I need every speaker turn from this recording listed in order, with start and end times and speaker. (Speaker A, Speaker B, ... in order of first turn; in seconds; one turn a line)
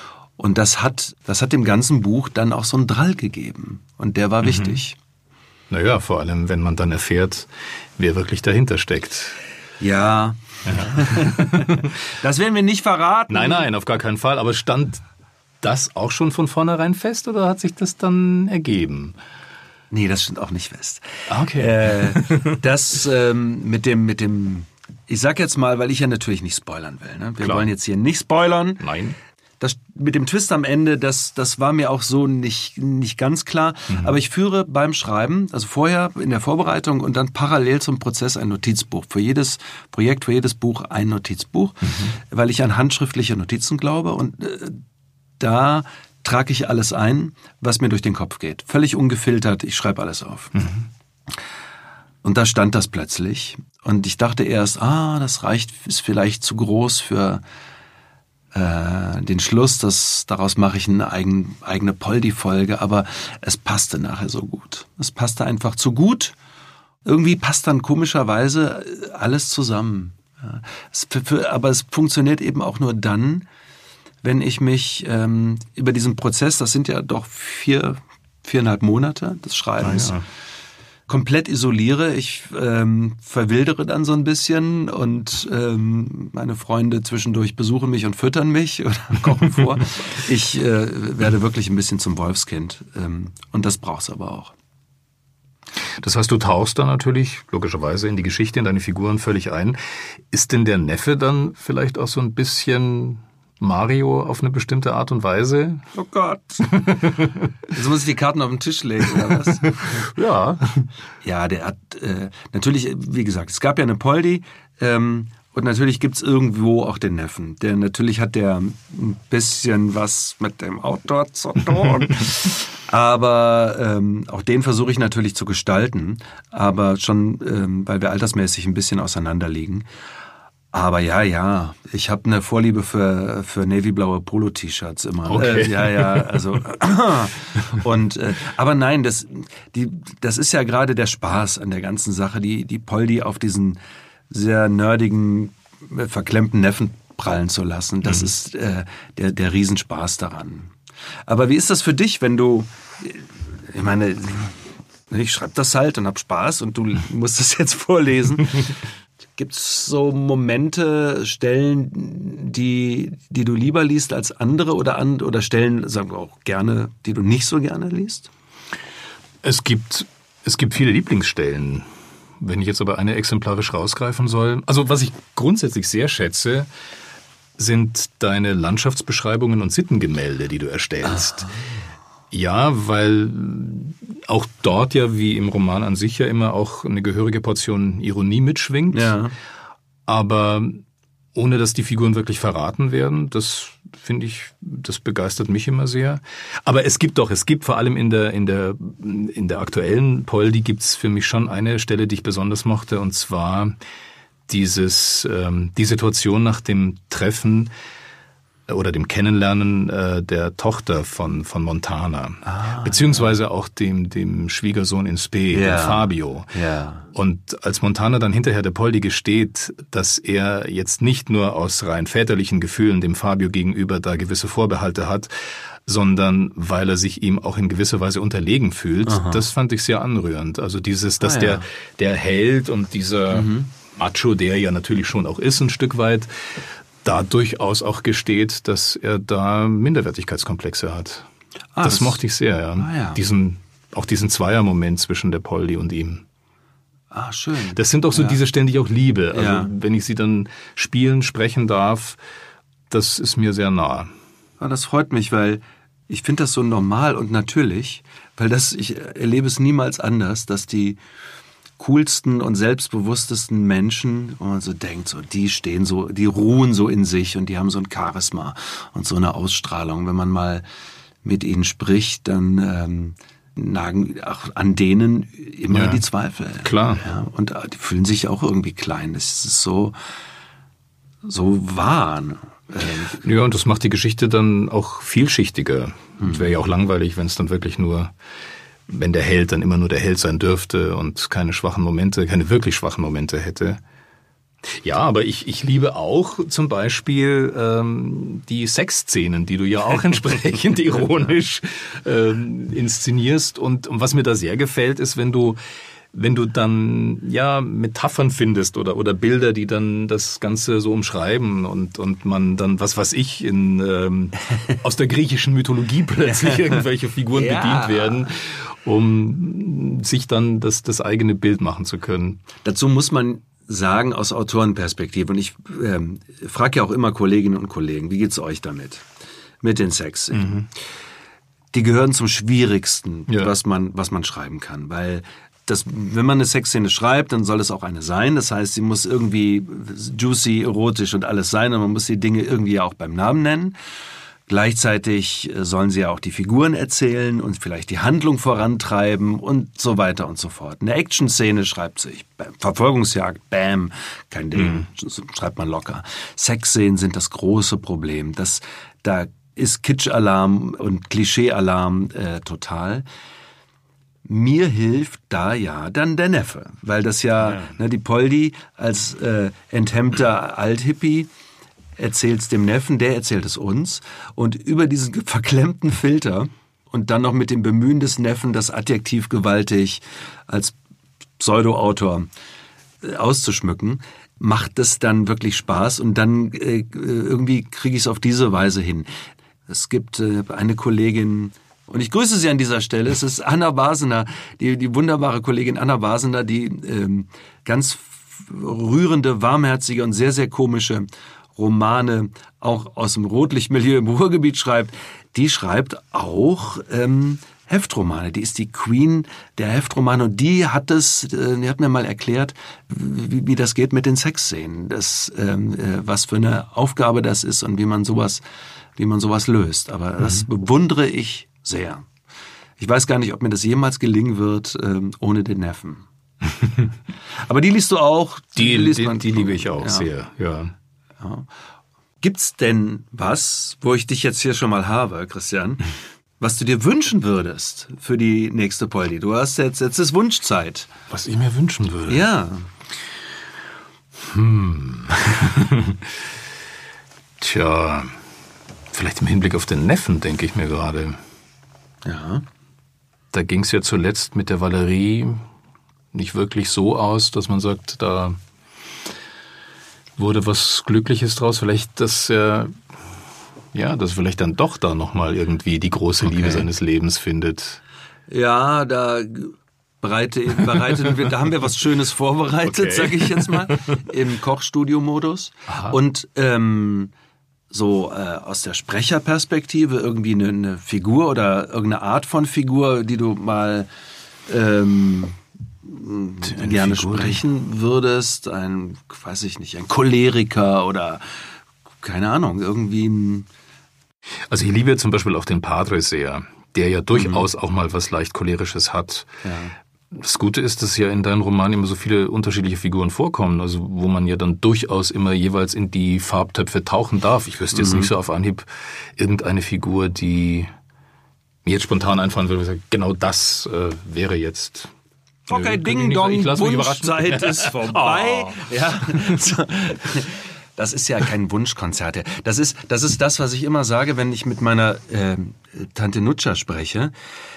Speaker A: 0.4-5.0
Speaker B: 4.4-4.8
Speaker B: 5.7-9.4
Speaker A: 9.8-13.7
Speaker B: 10.7-11.9
Speaker B: 13.3-15.0
Speaker B: 15.6-19.2
Speaker A: 19.9-28.9
Speaker B: 21.3-22.6
Speaker B: 27.4-27.7
Speaker B: 28.8-29.2
Speaker A: 29.6-44.8
Speaker B: 33.9-34.1
Speaker A: 45.4-50.6
Speaker B: 50.5-50.9
Speaker A: 52.2-57.4
Speaker A: 58.5-66.3
Speaker A: 67.0-73.5
Speaker A: 74.2-80.2
Speaker B: 79.8-80.2
Speaker A: 81.1-94.5
Speaker B: 96.0-105.9
Speaker A: 105.9-107.0
Speaker B: 106.7-107.4
Speaker A: 107.7-110.1
Speaker B: 110.0-110.9
Speaker A: 111.2-129.9
Speaker A: 130.7-143.8
Speaker B: 135.2-136.5
Speaker A: 144.3-150.7
Speaker B: 148.1-148.3
Speaker A: 151.3-154.6
Speaker A: 155.1-158.8
Speaker A: 159.4-168.3
Speaker B: 169.4-171.9
Speaker B: 172.4-176.7
Speaker B: 177.6-181.5
Speaker A: 181.1-181.8
Speaker B: 182.3-189.2
Speaker A: 188.9-189.3
Speaker B: 190.1-190.8
Speaker B: 191.3-203.8
Speaker B: 204.5-207.7
Speaker B: 208.7-216.5
Speaker A: 212.4-213.3
Speaker A: 215.5-217.1
Speaker B: 217.1-241.3
Speaker A: 229.1-229.4
Speaker A: 231.2-231.7
Speaker A: 233.3-233.7
Speaker A: 241.8-242.2
Speaker B: 241.8-246.2
Speaker A: 242.8-243.2
Speaker A: 247.1-248.4
Speaker B: 247.8-252.2
Speaker A: 249.3-249.7
Speaker B: 252.9-254.1
Speaker A: 254.6-261.0
Speaker A: 261.8-270.6
Speaker A: 271.2-280.0
Speaker B: 275.7-276.0
Speaker B: 276.6-277.0
Speaker A: 281.2-283.2
Speaker B: 283.1-288.1
Speaker A: 286.2-286.5
Speaker B: 288.9-293.8
Speaker B: 294.6-305.6
Speaker B: 306.1-322.4
Speaker A: 316.3-316.8
Speaker A: 317.3-318.3
Speaker A: 322.6-329.1
Speaker A: 329.6-330.7
Speaker B: 330.3-330.7
Speaker A: 331.7-343.8
Speaker A: 344.5-363.1
Speaker B: 354.6-354.9
Speaker A: 364.2-371.3
Speaker B: 367.5-367.8
Speaker A: 372.0-380.8
Speaker A: 381.4-382.3
Speaker A: 383.0-389.1
Speaker A: 389.7-418.4
Speaker A: 419.0-422.1
Speaker A: 422.8-426.1
Speaker A: 427.4-430.1
Speaker B: 428.6-430.7
Speaker A: 431.2-431.5
Speaker A: 432.2-440.9
Speaker B: 441.1-442.3
Speaker A: 442.1-442.7
Speaker B: 444.2-446.1
Speaker B: 447.4-448.1
Speaker B: 448.9-451.2
Speaker A: 452.1-452.4
Speaker B: 453.3-455.5
Speaker B: 456.1-458.4
Speaker B: 460.2-462.8
Speaker B: 463.7-467.8
Speaker A: 466.3-466.7
Speaker A: 468.3-477.1
Speaker B: 472.6-474.0
Speaker B: 475.7-476.0
Speaker A: 477.7-483.9
Speaker A: 484.5-491.5
Speaker B: 486.4-487.4
Speaker A: 492.0-493.5
Speaker B: 494.5-499.4
Speaker A: 497.1-497.5
Speaker A: 499.4-499.8
Speaker B: 500.1-510.7
Speaker A: 507.7-508.1
Speaker B: 511.6-514.9
Speaker A: 515.5-527.1
Speaker B: 515.5-518.7